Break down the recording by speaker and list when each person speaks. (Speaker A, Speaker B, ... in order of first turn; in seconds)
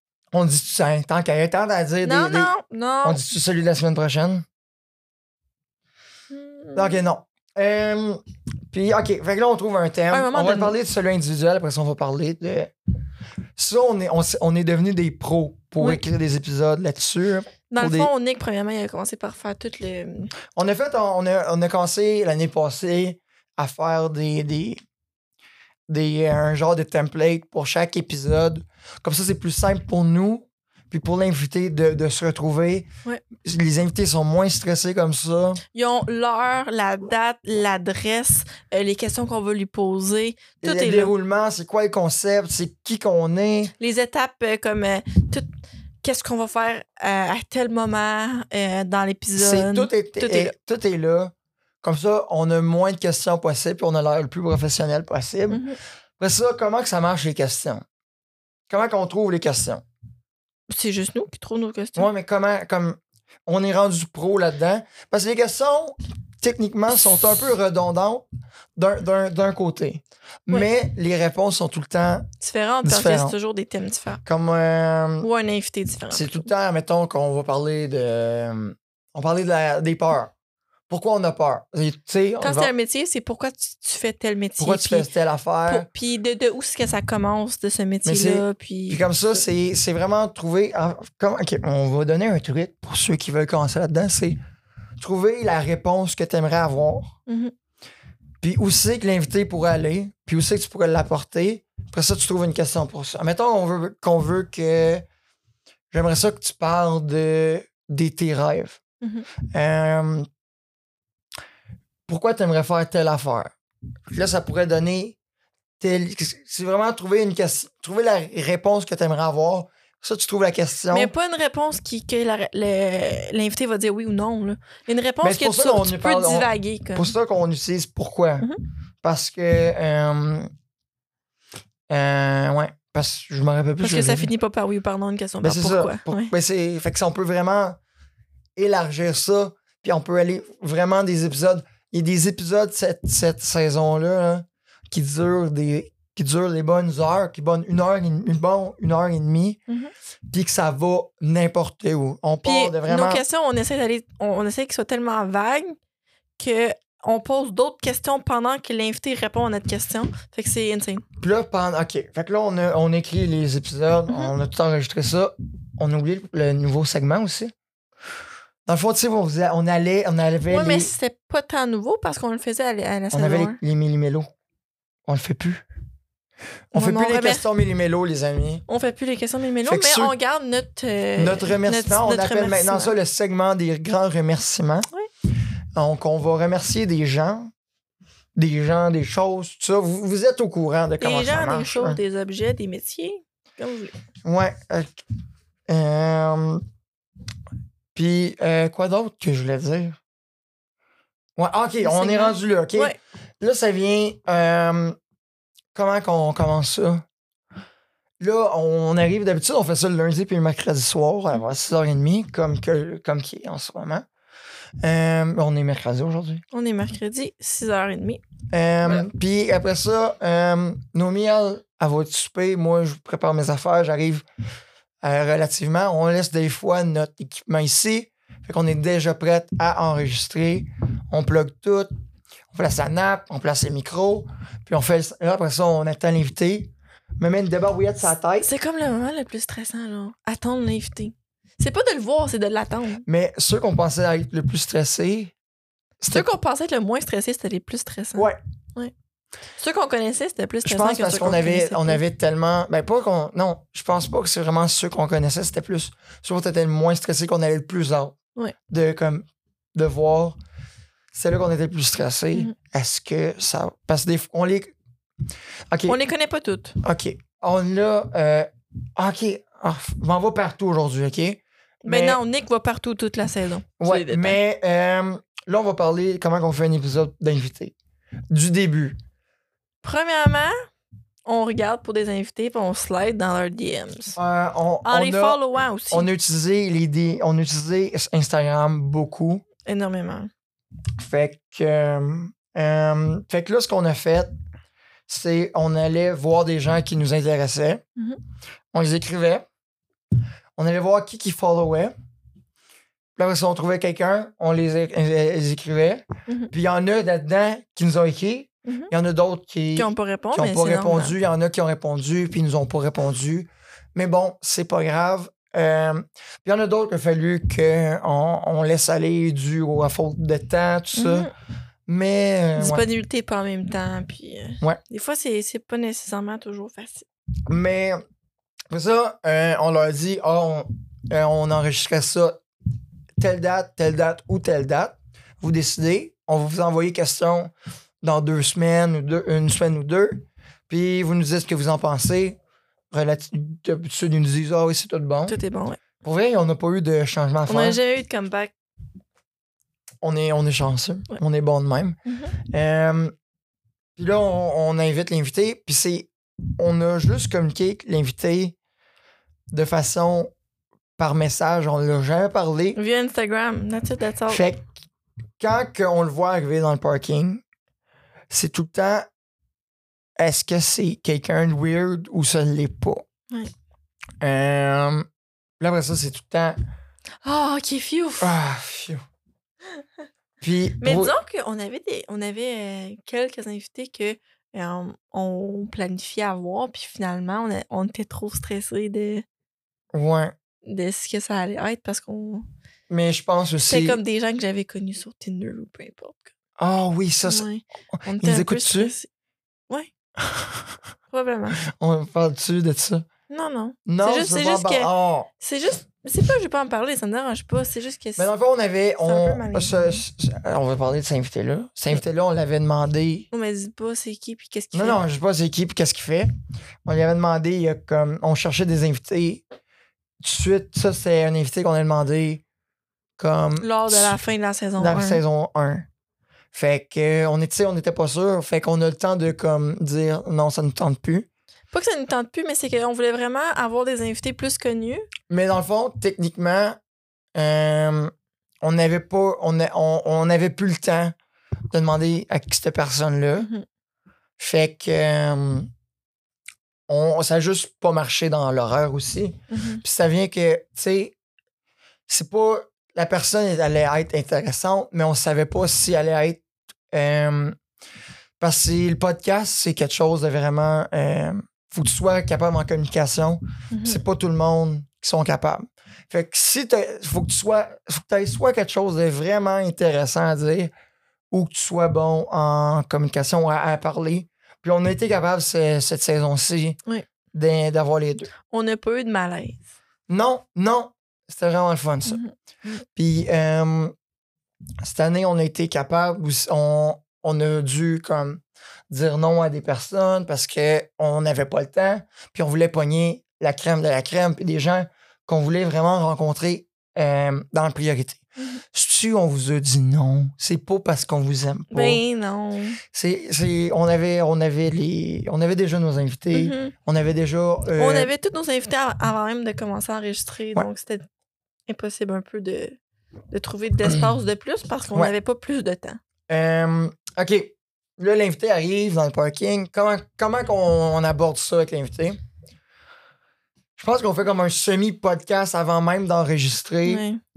Speaker A: 0.3-2.5, 3.0-4.5, 6.8-12.7, 13.6-18.1, 20.6-24.8, 25.9-35.6, 40.6-43.7, 49.4-55.6, 56.2-57.8, 58.7-59.8, 62.0-72.3, 72.8-73.3, 74.2-75.3, 76.1-80.3, 80.9-82.7, 84.6-85.9, 88.0-94.4, 95.0-97.2, 98.4-105.0, 105.9-108.8, 109.5-110.3, 112.1-113.5, 114.1-115.2, 115.8-121.1, 125.2-128.5, 129.0-130.5, 131.9-134.3, 135.4-137.8, 138.6-149.6, 150.3-153.2, 161.2-167.5, 168.7-170.9, 173.1-174.3, 175.1-175.6, 176.7-178.6, 179.6-180.2, 181.2-184.9, 185.8-187.5, 188.3-192.0, 194.2-195.0, 195.7-196.6, 197.9-200.0, 201.4-205.0, 205.8-207.1, 208.2-214.1, 214.8-216.4, 218.5-224.2, 225.0-231.9, 232.5-238.5, 243.1-245.3, 246.0-246.3, 250.6-258.2, 258.7-260.4, 261.1-264.7, 265.7-266.0, 266.8-272.2, 273.8-277.8, 278.3-279.0, 284.2-289.4, 291.0-294.3, 295.1-297.8, 298.7-299.4, 300.6-301.9, 303.2-321.3, 321.9-322.8, 327.5-328.0, 328.7-332.4, 333.2-342.4, 342.9-345.4, 346.0-347.8, 350.0-352.0, 352.5-353.1, 354.0-358.6, 359.5-360.3, 361.0-362.8, 364.3-364.6, 365.4-367.4, 368.3-369.1, 370.2-373.1, 374.2-375.1, 375.6-376.6, 378.2-379.0, 380.4-381.2, 389.9-390.4, 392.9-394.0, 396.6-397.5, 398.2-398.9, 400.2-400.6, 401.6-403.1, 403.9-405.3, 408.2-413.3, 414.7-416.3, 416.9-419.4, 420.2-422.4, 423.2-424.2, 424.8-425.9, 426.5-431.3, 435.3-436.8, 437.4-441.1, 441.7-443.5, 444.4-445.7, 446.9-451.1, 452.1-457.6, 458.4-470.7, 471.3-476.8, 477.3-478.3, 480.1-482.2, 482.9-483.9, 484.8-498.2, 498.7-502.0, 502.9-508.1, 513.9-514.1, 516.3-522.2, 523.8-527.0
Speaker B: 2.0-3.2, 6.3-7.0, 10.1-10.8, 17.7-20.3, 35.7-41.1, 43.8-45.5, 46.0-50.5, 55.5-55.8, 60.7-62.1, 72.4-74.2, 75.2-76.5, 82.4-85.1, 85.7-89.0, 97.3-97.5, 109.0-109.3, 120.9-127.2, 133.8-136.3, 152.4-155.8, 156.4-161.0, 164.1-164.3, 170.5-173.6, 176.7-177.4, 178.7-182.9, 191.0-193.9, 201.8-203.0, 216.5-218.2, 238.4-243.0, 246.1-248.9, 249.6-252.0, 265.9-266.8, 271.9-274.4, 279.8-280.6, 281.3-284.2, 284.9-286.1, 289.6-290.3, 308.7-308.9, 309.8-311.1, 320.9-321.3, 322.6-327.1, 345.3-345.8, 347.5-348.5, 352.1-352.3, 362.8-364.4, 377.2-378.4, 380.8-389.3, 390.6-392.4, 393.7-396.3, 397.2-399.1, 401.1-401.6, 403.3-404.9, 405.4-408.3, 409.0-410.0, 413.3-415.0, 423.6-425.2, 431.7-435.1, 443.4-443.6, 449.5-449.8, 463.7-464.0, 478.5-479.6, 482.1-482.3, 501.7-502.8, 506.3-506.7, 507.8-511.1, 511.7-512.8, 513.3-516.0, 526.9-527.2